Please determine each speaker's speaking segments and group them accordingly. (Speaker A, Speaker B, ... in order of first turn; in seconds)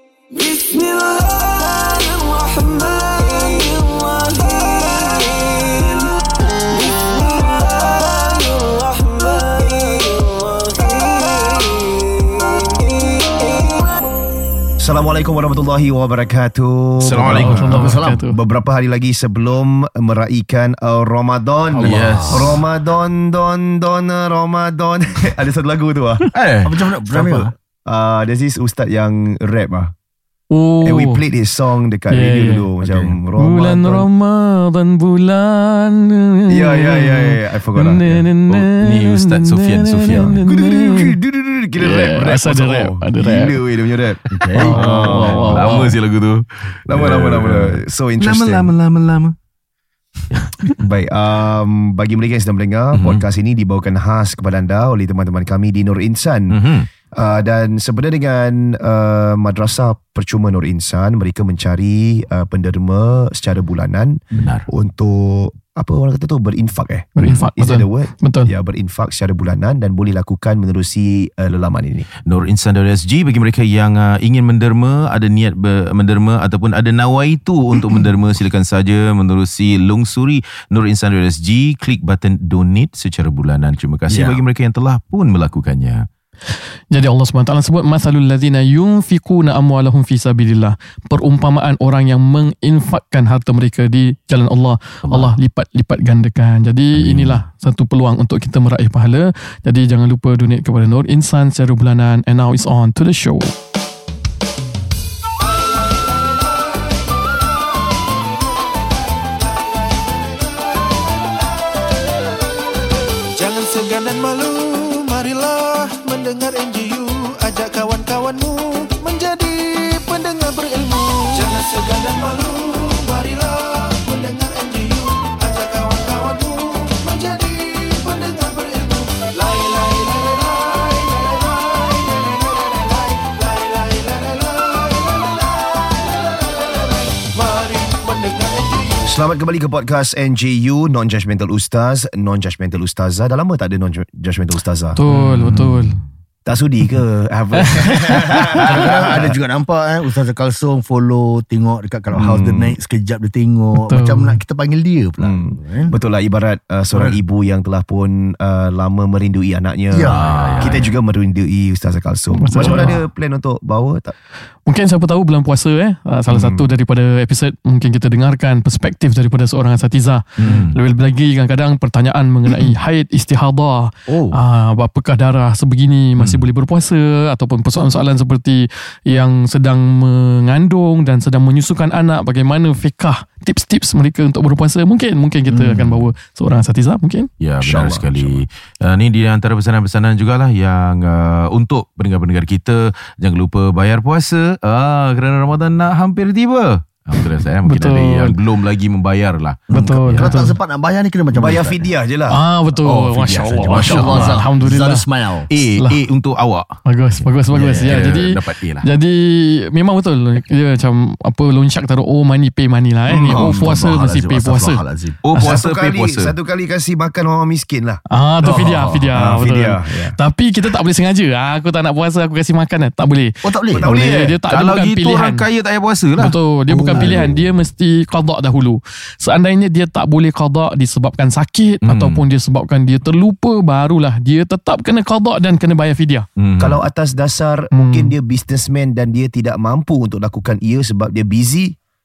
Speaker A: 0.3-13.9, 105.6-107.3, 109.2-111.0, 113.3-139.1
Speaker B: 14.8-26.3, 27.1-29.9, 30.8-34.1, 36.5-38.2, 40.2-45.7, 46.9-48.7, 50.8-56.6, 57.1-72.1, 139.0-145.0, 146.4-149.4, 152.1-152.8, 155.2-164.1, 166.3-166.7, 187.6-188.4, 201.3-202.4, 203.8-204.3, 213.1-213.8, 215.3-220.2, 223.7-224.4, 226.9-227.2, 236.6-241.7
Speaker C: 17.0-17.8, 21.8-22.6, 26.3-26.9, 38.5-40.3, 45.1-49.3, 50.3-50.6, 52.9-53.2, 56.5-56.9, 64.3-64.7, 67.2-67.4, 72.2-86.1, 95.1-95.4, 96.9-97.4, 145.1-145.7, 160.1-160.8, 170.4-170.8, 176.2-176.4, 187.4-200.4, 203.7-204.4, 205.5-206.8, 207.7-208.8, 215.2-216.3, 224.5-226.4, 231.8-232.2, 236.4-236.8
Speaker D: 17.3-18.2, 21.7-22.5, 26.6-27.5, 32.8-33.1, 44.3-45.7, 84.1-84.4, 148.6-155.9, 159.9-160.9, 185.5-186.0, 199.7-201.8, 202.8-205.5, 207.5-208.2, 213.1-215.2, 223.4-223.9, 226.7-227.3
Speaker E: 17.4-18.4, 30.5-31.2, 32.1-32.7, 33.4-41.2, 41.8-43.5, 44.5-45.9, 67.2-68.5, 86.9-103.5, 144.9-146.0, 147.6-148.4, 153.7-154.4, 162.3-163.0, 164.7-187.3, 197.7-198.3, 199.7-200.6, 202.3-205.1, 206.8-214.8, 218.1-225.4, 226.2-236.2, 237.7-238.1